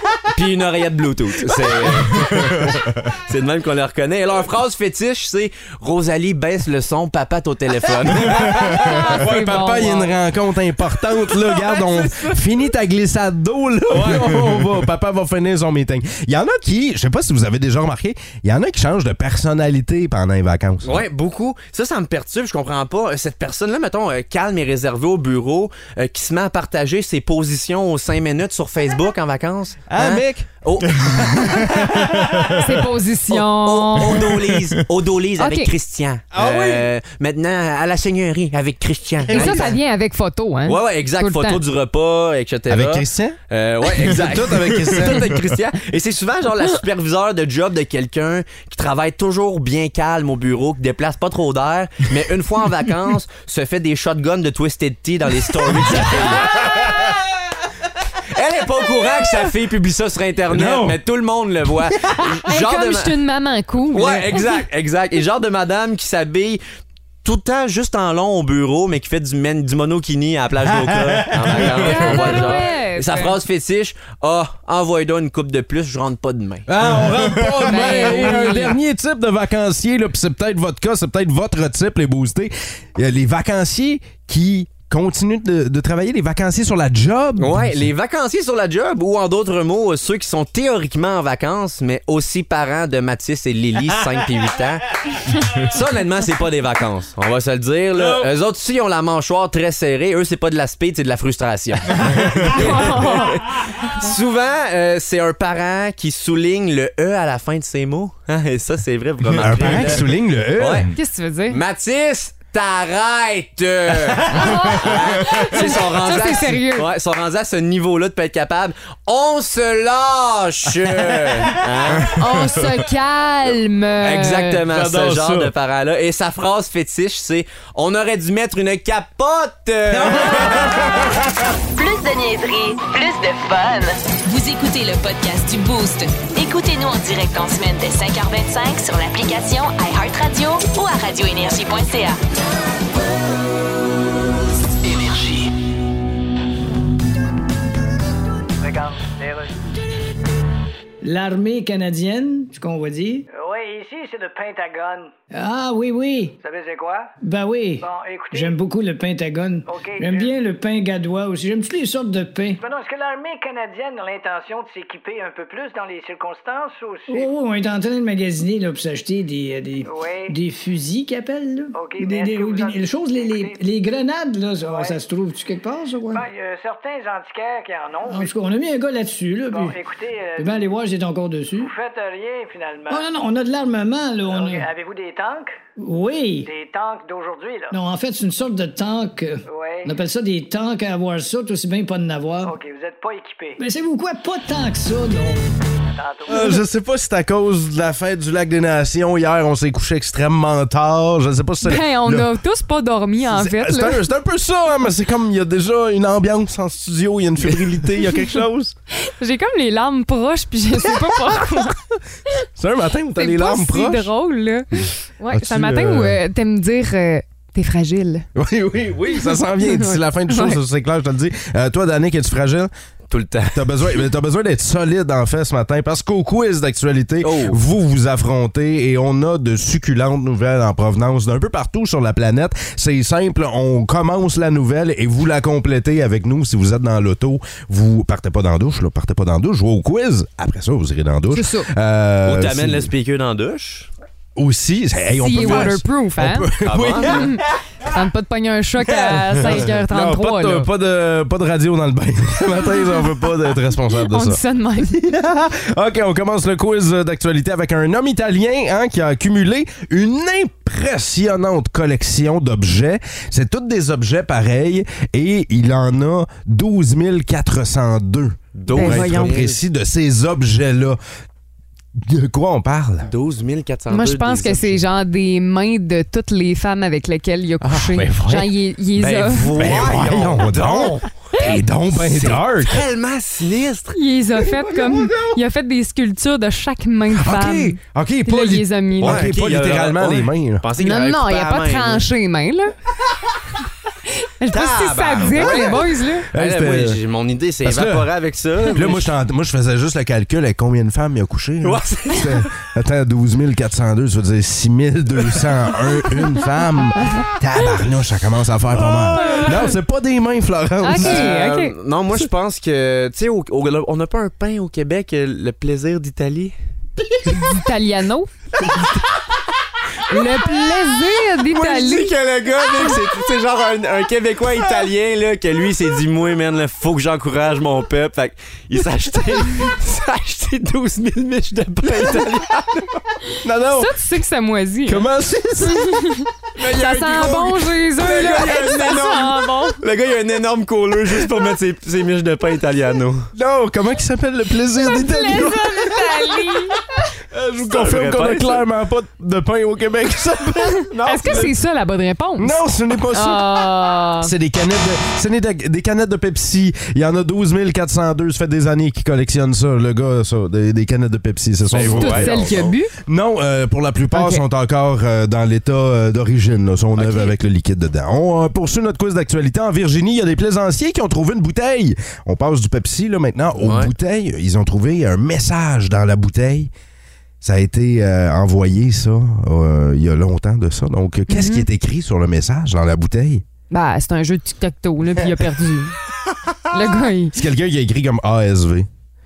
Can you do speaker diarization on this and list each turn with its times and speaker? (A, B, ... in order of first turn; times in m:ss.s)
0:00.3-0:09.0 A
0:01.6-0:02.7 B
0:08.2-0:21.0 B
0:08.6-0:10.2 C
0:11.6-0:12.2 C
0:13.9-0:14.5 A
0:20.8-0:32.6 A
0:29.9-0:32.6 B
0:32.6-0:34.3 C
0:33.3-0:39.7 A
0:35.4-0:35.7 C
0:36.3-0:36.9 B
0:39.3-0:39.8 B
0:39.3-0:41.6 C
0:40.6-0:56.9 A
0:42.7-0:43.4 B
0:43.9-0:45.5 B
0:58.3-1:03.2 A
1:00.5-1:01.0 B
1:02.5-1:04.6 C
1:03.9-1:06.6 A
1:07.2-1:16.7 A
1:10.7-1:12.5 B
1:11.8-1:13.4 C
1:16.6-1:27.9 B
1:17.5-1:18.8 C
1:17.8-1:18.3 A
1:27.4-1:34.9 A
1:35.5-1:50.9 A
1:38.0-1:38.3 B
1:42.4-1:43.5 C
1:49.3-1:50.9 B
1:50.9-1:51.6 C
1:51.5-2:02.2 A
1:54.3-1:54.6 B
1:54.3-1:56.9 C
2:00.9-2:01.8 B
2:02.1-2:04.6 C
2:04.0-2:10.8 A
2:04.7-2:05.5 B
2:09.9-2:11.2 B
2:11.7-2:22.2 D
2:28.6-2:29.6 E
2:31.0-2:33.3 F
2:33.3-2:35.1 E
2:35.3-2:36.3 F
2:36.4-2:37.1 E
2:37.2-2:42.6 F
2:37.8-2:38.6 E
2:39.7-2:40.3 E
2:42.6-2:47.3 E
2:47.1-2:56.2 F
2:49.8-2:50.3 E
2:51.7-2:53.6 E
2:54.6-2:55.0 E
2:56.1-2:58.3 E
2:58.1-2:59.8 F
2:59.5-3:00.7 E
3:00.4-3:01.7 F
3:01.5-3:03.1 E
3:02.9-3:04.7 F
3:04.3-3:05.6 E
3:05.8-3:06.5 F
3:06.4-3:07.8 E
3:07.7-3:12.5 F
3:09.4-3:10.0 E
3:12.4-3:13.6 E
3:13.6-3:15.5 F
3:15.9-3:16.5 E
3:16.3-3:22.3 B
3:21.6-3:24.0 C
3:23.2-3:28.8 B
3:29.1-3:31.9 C
3:32.6-3:34.1 B
3:33.2-3:38.2 C
3:35.3-3:36.2 B
3:38.3-3:42.7 B
3:39.1-3:40.6 C
3:43.1-3:43.8 A
3:43.5-4:02.9 B
3:47.2-3:47.6 A
4:01.3-4:01.7 C
4:02.2-4:03.9 A
4:04.4-4:07.5 B
4:05.1-4:06.5 C
4:06.6-4:07.3 A
4:07.0-4:10.7 C
4:08.8-4:31.0 B
4:12.6-4:13.2 C
4:13.9-4:15.0 C
4:28.5-4:29.6 A
4:28.7-4:29.4 C
4:32.0-4:33.1 B
4:33.0-4:34.8 A
4:33.9-4:39.7 C
4:37.6-4:38.5 B
4:37.7-4:38.3 A
4:39.0-4:41.2 A
4:39.5-4:42.8 B
4:41.9-4:45.1 A
4:43.9-4:49.2 C
4:47.1-4:50.6 B
4:49.0-4:52.1 A
4:50.8-4:52.7 C
4:54.4-4:56.3 C
4:54.5-4:59.1 A
4:55.3-4:55.8 B
4:56.3-4:57.0 B
4:57.6-4:58.1 B
4:58.7-5:11.3 B
5:01.6-5:02.5 A
5:08.7-5:09.6 A
5:09.2-5:09.7 C
5:10.8-5:11.7 C
5:11.0-5:16.5 A
5:17.3-5:18.3 C
5:18.6-5:19.0 A
5:20.1-5:22.1 C
5:21.5-5:33.0 A
5:33.4-5:34.0 B
5:33.7-5:35.0 C
5:34.8-5:35.8 B
5:35.7-5:39.8 C
5:36.6-5:43.3 A
5:43.3-5:46.1 B
5:44.8-5:46.8 C
5:47.3-5:51.5 B
5:47.6-5:48.6 A
5:50.9-5:51.5 A
5:51.0-5:52.6 C
5:52.4-5:53.6 B
5:53.1-5:54.3 C
5:54.2-6:16.7 B
6:01.7-6:02.7 A
6:01.9-6:02.9 C
6:04.1-6:04.4 C
6:07.0-6:07.3 A
6:13.6-6:13.9 A
6:17.4-6:23.4 B
6:21.3-6:21.7 C
6:23.7-6:26.0 C
6:26.7-6:27.3 C
6:27.3-6:28.9 B